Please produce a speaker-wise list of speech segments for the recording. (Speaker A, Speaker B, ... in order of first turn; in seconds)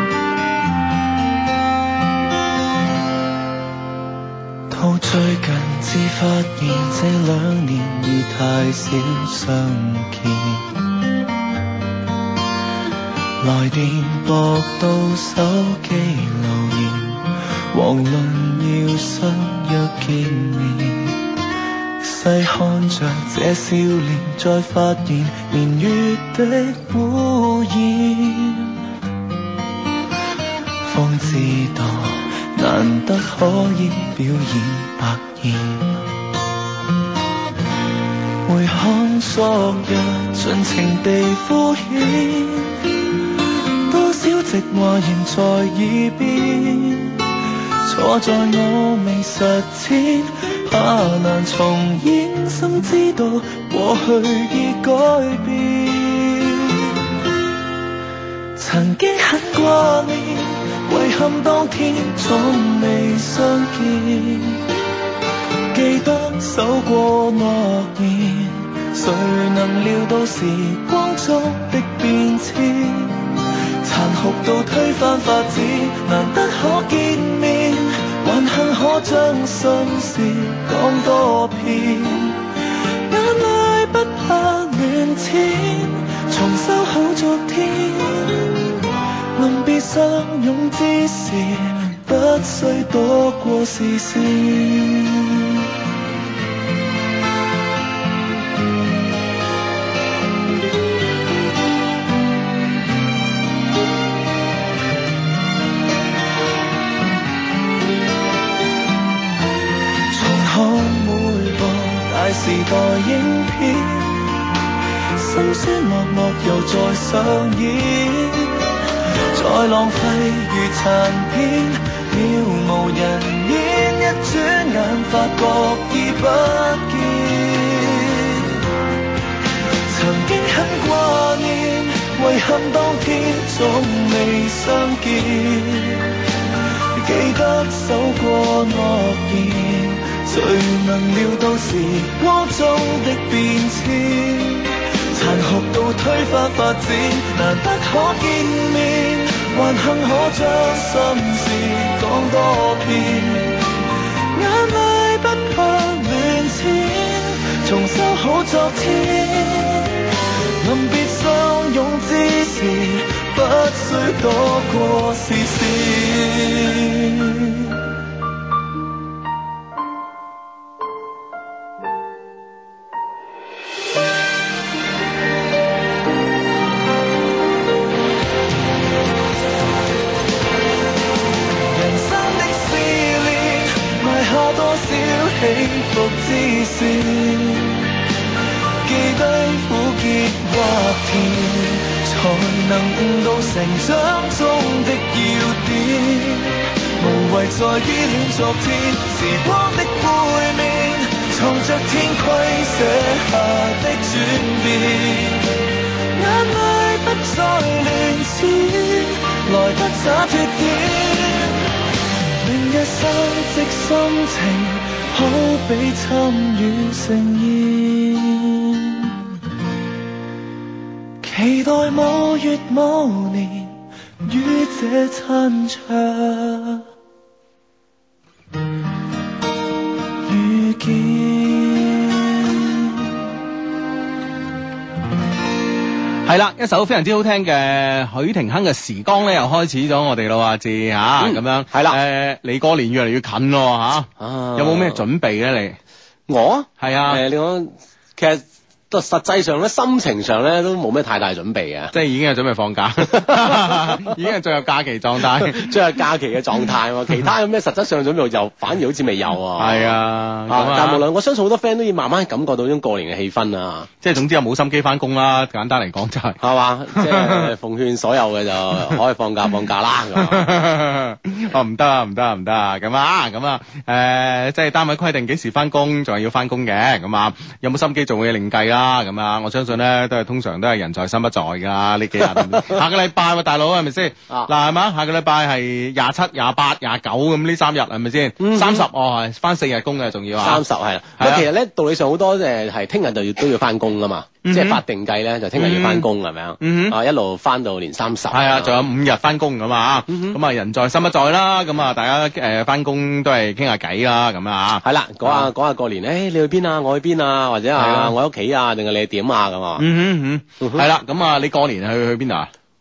Speaker A: 4.7-10.7, 13.4-21.2, 22.0-28.8, 30.9-36.0, 38.5-42.8, 43.9-47.2, 47.9-57.0, 58.6-64.6, 65.7-73.2, 73.8-82.4, 83.1-88.7, 89.4-95.6, 110.1-114.3, 115.2-118.5, 119.3-128.6, 129.9-136.1, 137.0-153.6, 154.3-160.0, 160.6-167.8, 181.7-187.9, 188.9-205.4, 206.2-211.5, 212.4-219.2, 221.2-223.8, 224.3-226.8, 230.3-233.0
Speaker B: 236.2-245.8, 246.8-247.2, 251.9-255.8, 259.6-261.0, 264.0-266.4, 266.9-267.5, 270.1-290.6, 291.2-291.5, 294.4-294.8, 295.6-296.1, 296.6-297.0, 298.3-305.5, 307.8-308.1, 309.8-312.5
Speaker C: 241.2-242.0, 244.2-245.0, 246.3-251.9, 253.1-254.1, 255.2-263.9, 266.4-270.5, 282.2-282.8, 288.4-288.9, 290.4-298.8, 300.1-300.4, 304.8-309.9, 310.6-310.9